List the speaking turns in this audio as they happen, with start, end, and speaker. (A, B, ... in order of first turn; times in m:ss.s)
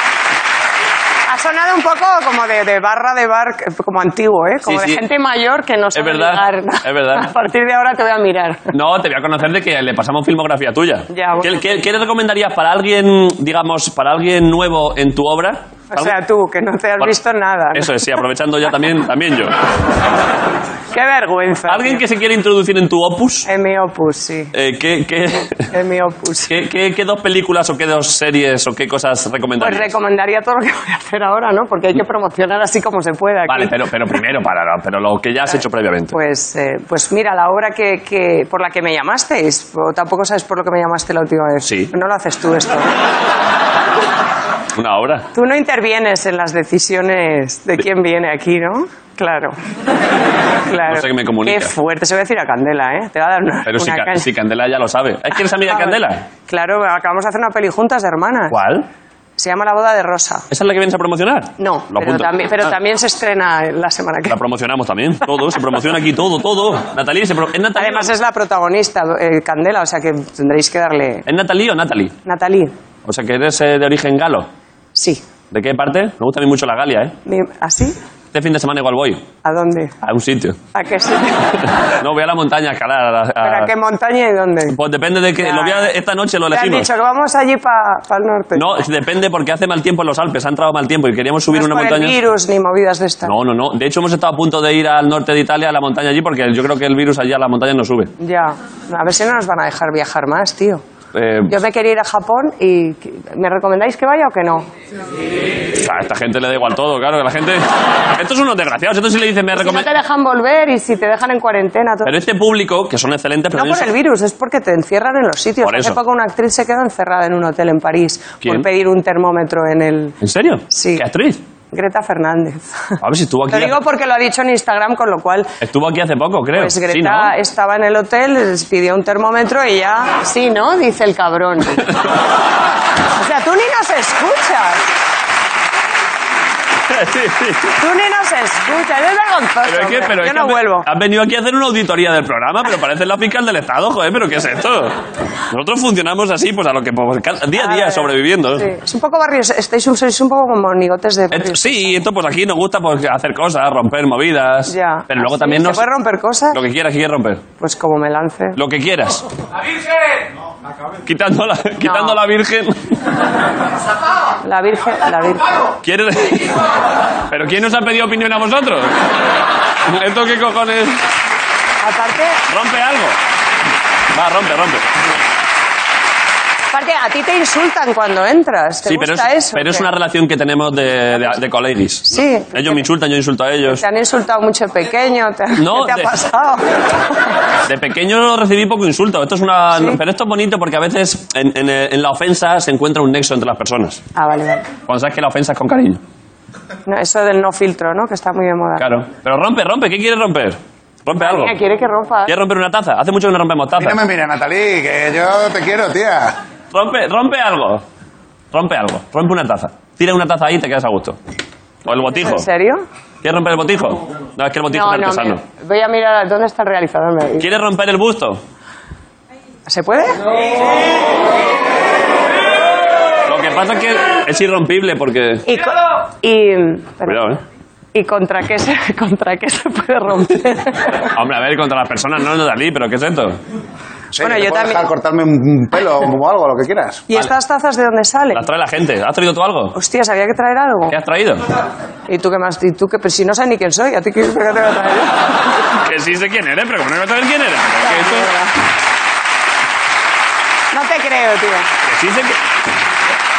0:01.3-0:08.7 A
0:04.6-0:05.0 B
0:05.9-0:07.3 B
0:08.7-0:16.2 B
0:11.1-0:11.8 A
0:15.9-0:18.0 A
0:17.7-0:19.6 B
0:20.9-0:22.0 A
0:21.7-0:23.5 B
0:23.4-0:24.5 A
0:24.5-0:25.7 B
0:25.7-0:26.5 A
0:26.5-0:29.9 B
0:29.6-0:33.8 A
0:33.5-0:36.1 B
0:36.1-0:42.9 A
0:41.6-0:41.9 B
0:44.8-0:45.3 B
0:45.3-0:49.6 A
0:50.6-0:54.3 A
0:50.8-0:51.7 B
0:53.6-0:56.2 B
0:55.6-0:58.6 A
0:58.5-0:58.9 B
0:59.4-1:00.4 A
1:00.5-1:02.3 B
1:01.6-1:04.4 A
1:04.3-1:08.1 B
1:07.8-1:11.2 A
1:11.2-1:12.1 B
1:12.2-1:12.7 A
1:13.0-1:14.5 B
1:15.0-1:15.2 A
1:15.5-1:17.1 B
1:17.3-1:18.0 A
1:18.3-1:19.3 B
1:19.4-1:19.9 A
1:20.0-1:20.6 B
1:20.7-1:21.7 A
1:21.6-1:23.7 B
1:23.4-1:24.8 A
1:24.7-1:26.9 B
1:25.4-1:25.9 A
1:26.5-1:28.9 A
1:28.6-1:32.2 B
1:31.5-1:33.3 A
1:33.2-1:38.1 B
1:38.2-1:40.8 A
1:41.1-1:41.6 B
1:41.5-1:44.7 A
1:45.7-1:49.9 B
1:49.5-1:52.1 A
1:52.0-1:53.9 B
1:53.5-2:00.2 A
1:55.6-1:56.0 B
2:00.2-2:01.4 B
2:00.7-2:01.1 A
2:01.7-2:03.0 A
2:03.0-2:03.8 B
2:03.5-2:05.6 A
2:05.6-2:07.3 B
2:06.5-2:11.9 A
2:13.1-2:14.9 A
2:16.9-2:17.7 B
2:17.8-2:20.9 A
2:19.6-2:28.7 B
2:27.6-2:32.0 A
2:31.3-2:35.8 B
2:34.7-2:36.6 A
2:36.5-2:37.4 B
2:37.6-2:38.6 A
2:38.6-2:39.3 B
2:41.0-2:42.9 B
2:41.8-2:42.2 A
2:44.4-2:45.6 A
2:45.8-2:46.6 B
2:47.3-2:49.0 B
2:49.9-2:51.0 B
2:51.8-2:52.4 A
2:52.5-2:53.2 B
2:54.1-2:54.9 B
2:56.7-2:59.9 A
2:58.8-3:03.8 B
3:02.1-3:02.8 A
3:03.7-3:07.4 A
3:05.6-3:06.1 B
3:07.6-3:14.0 B
3:14.1-3:14.7 A
3:14.8-3:16.0 B
3:16.9-3:18.9 A
3:18.8-3:21.6 B
3:21.2-3:22.4 A
3:22.3-3:24.0 B
3:23.8-3:26.4 C
3:26.7-3:27.8 B
3:28.5-3:31.2 B
3:31.8-3:32.5 B
3:32.0-3:32.8 A
3:33.2-3:35.4 B
3:34.7-3:37.5 A
3:37.4-3:38.4 B
3:39.7-3:40.2 A
3:43.2-3:45.5 B
3:45.4-3:47.3 A
3:47.0-3:47.4 B
3:47.9-3:51.1 A
3:51.1-3:53.4 B
3:54.1-3:57.1 C
3:54.2-3:54.8 A
3:57.1-3:58.4 A
3:58.3-3:59.8 B
3:59.7-4:01.0 A
4:00.9-4:01.4 B
4:02.1-4:05.3 A
4:05.8-4:08.3 B
4:07.8-4:08.5 A
4:10.7-4:11.7 A
4:11.8-4:12.4 B